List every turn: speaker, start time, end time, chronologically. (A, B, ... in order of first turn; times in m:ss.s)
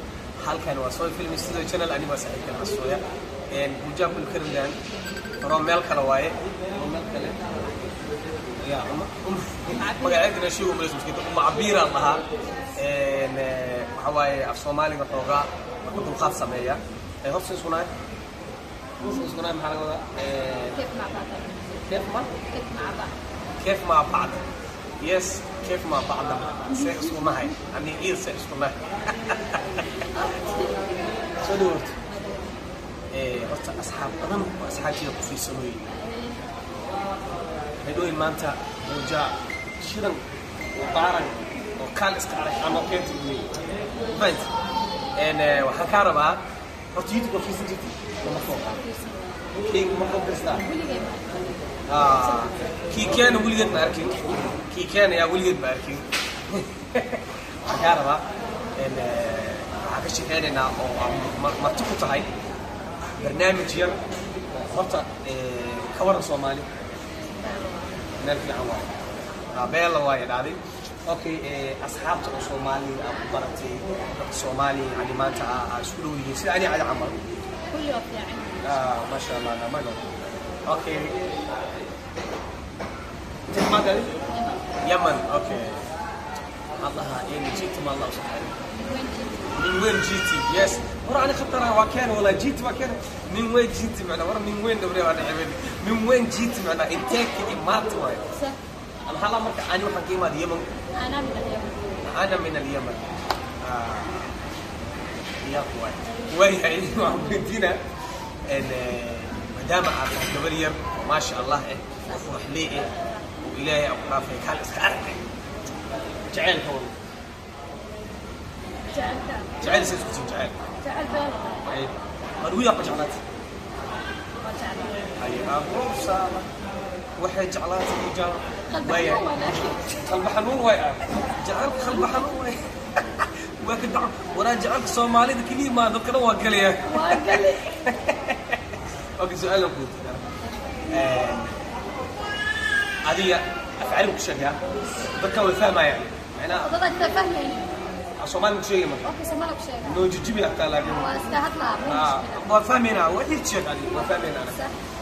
0:00.4-0:04.8 A
0:05.4-0:07.5 A
0:08.6-0:12.2 A
0:09.7-0:10.3 B
0:12.8-0:17.9 A
0:19.0-0:20.8 A
0:20.7-0:23.2 B
0:21.9-0:22.3 A
0:23.6-0:24.5 A
0:25.0-0:30.0 A
0:26.7-0:27.5 B
0:30.1-0:32.6 B
0:31.4-0:32.0 A
0:33.1-0:35.9 A
0:35.9-0:36.6 B
0:37.8-0:44.5 A
0:45.2-0:48.8 A
0:48.2-0:49.5 B
0:49.7-0:50.6 A
0:50.5-0:52.6 B
0:51.9-0:58.2 A
0:58.8-1:02.3 A
1:03.2-1:06.7 A
1:07.2-1:08.0 B
1:08.2-1:08.9 A
1:09.5-1:17.2 A
1:17.7-1:19.1 B
1:18.6-1:21.2 A
1:23.5-1:24.2 A
1:24.3-1:24.7 B
1:24.8-1:25.8 A
1:26.8-1:28.6 A
1:28.7-1:29.6 B
1:29.5-1:38.3 A
1:38.3-1:38.6 B
1:39.0-1:40.7 A
1:40.9-1:42.0 B
1:42.0-1:44.4 A
1:45.4-1:47.8 A
1:48.4-1:52.9 A
1:52.1-1:53.2 B
1:53.4-1:55.2 A
1:56.3-1:57.0 A
1:58.9-2:00.0 B
1:59.6-2:00.6 A
2:00.8-2:01.7 B
2:01.6-2:03.2 A
2:04.4-2:05.1 B
2:05.2-2:06.5 A
2:07.2-2:20.2 A
2:08.7-2:09.9 B
2:16.8-2:17.8 B
2:20.9-2:21.6 A
2:23.1-2:26.7 A
2:26.5-2:27.9 B
2:28.2-2:29.2 A
2:29.0-2:30.1 B
2:29.8-2:31.2 A
2:30.9-2:32.5 B
2:31.9-2:34.7 A
2:34.4-2:34.8 B